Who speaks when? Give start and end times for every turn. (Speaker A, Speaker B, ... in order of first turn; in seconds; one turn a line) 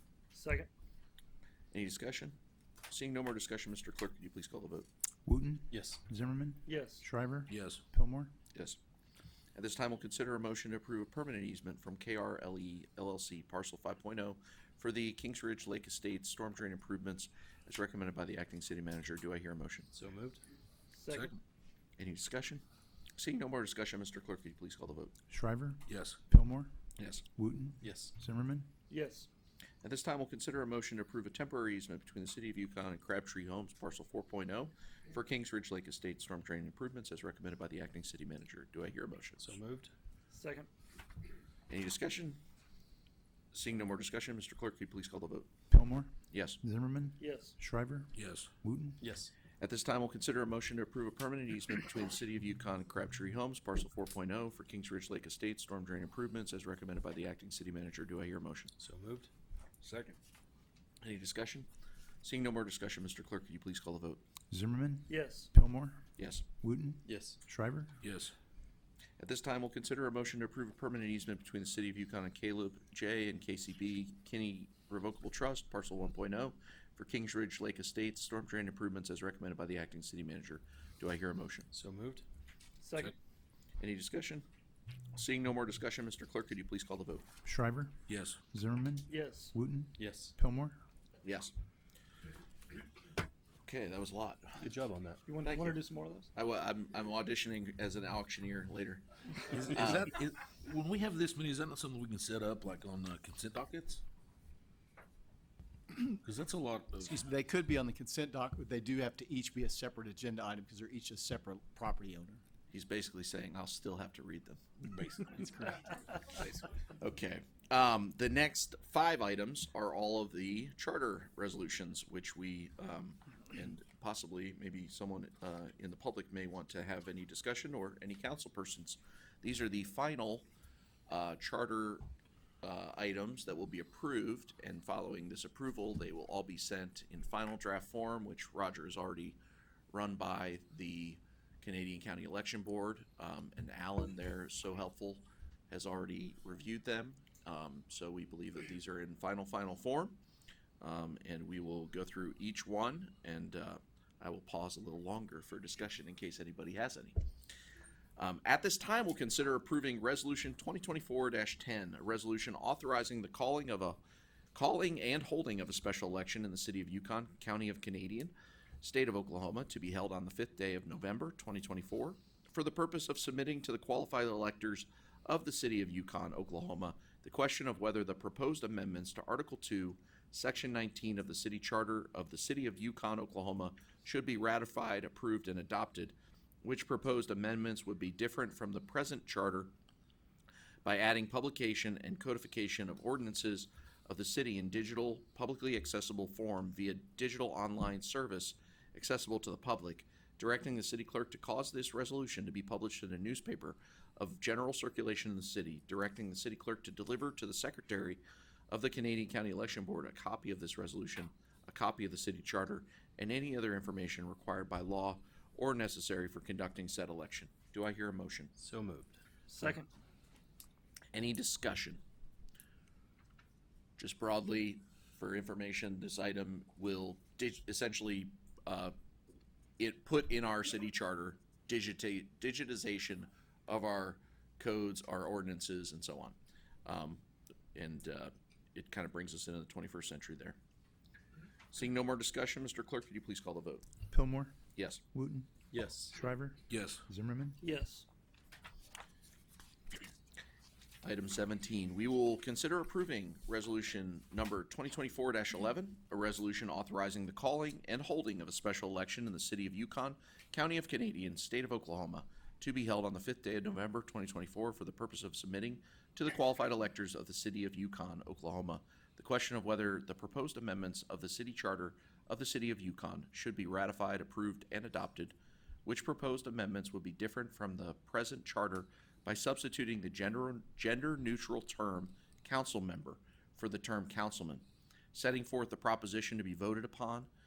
Speaker A: 0.3-0.7
Speaker B: 1.7-2.4
Speaker B: 2.9-4.9
Speaker C: 5.3-8.3
Speaker D: 5.7-6.0
Speaker A: 6.7-7.0
Speaker E: 7.5-7.8
Speaker B: 8.5-8.8
Speaker B: 9.6-19.9
Speaker D: 19.9-20.4
Speaker A: 20.9-21.3
Speaker E: 21.1-21.4
Speaker B: 22.0-22.6
Speaker B: 23.2-25.1
Speaker C: 25.3-26.7
Speaker E: 25.9-26.2
Speaker B: 27.0-27.2
Speaker C: 27.4-28.7
Speaker D: 27.8-28.1
Speaker A: 28.9-29.3
Speaker B: 29.8-39.5
Speaker D: 39.4-39.9
Speaker A: 40.3-40.7
Speaker B: 41.7-42.4
Speaker B: 43.5-45.5
Speaker C: 45.7-49.0
Speaker B: 46.3-46.6
Speaker A: 47.2-47.5
Speaker E: 48.2-48.5
Speaker D: 49.0-49.3
Speaker B: 49.6-58.7
Speaker D: 58.8-59.3
Speaker E: 59.8-60.2
Speaker B: 61.0-61.7
Speaker B: 62.2-64.2
Speaker C: 64.5-66.0
Speaker A: 65.1-65.5
Speaker B: 66.2-66.4
Speaker C: 66.6-67.9
Speaker D: 67.0-67.4
Speaker E: 68.0-68.3
Speaker B: 69.2-81.7
Speaker D: 81.7-82.2
Speaker A: 82.8-83.1
Speaker B: 83.8-84.5
Speaker B: 85.1-87.2
Speaker C: 87.4-88.0
Speaker E: 88.1-88.4
Speaker C: 88.5-90.8
Speaker A: 89.1-89.5
Speaker D: 90.0-90.3
Speaker B: 91.2-91.5
Speaker B: 93.7-94.6
Speaker D: 94.6-95.2
Speaker A: 95.3-96.3
Speaker B: 95.4-95.8
Speaker B: 96.3-100.1
Speaker E: 99.5-104.0
Speaker E: 106.1-107.2
Speaker F: 107.0-112.4
Speaker B: 112.7-114.6
Speaker E: 114.8-116.6
Speaker B: 117.0-130.4
Speaker B: 131.1-132.1
Speaker B: 132.6-139.4
Speaker B: 139.9-150.2
Speaker B: 150.8-157.2
Speaker B: 158.2-164.0
Speaker B: 164.6-189.7
Speaker B: 190.8-218.5
Speaker D: 218.6-219.2
Speaker A: 219.5-219.9
Speaker B: 221.1-222.0
Speaker B: 224.0-228.9
Speaker B: 229.8-237.2
Speaker B: 237.7-240.6
Speaker B: 241.7-243.8
Speaker C: 244.1-244.6
Speaker B: 244.8-245.0
Speaker C: 245.1-245.5
Speaker D: 245.7-246.2
Speaker C: 246.1-247.6
Speaker E: 246.7-247.0
Speaker A: 247.6-248.1
Speaker B: 251.0-287.3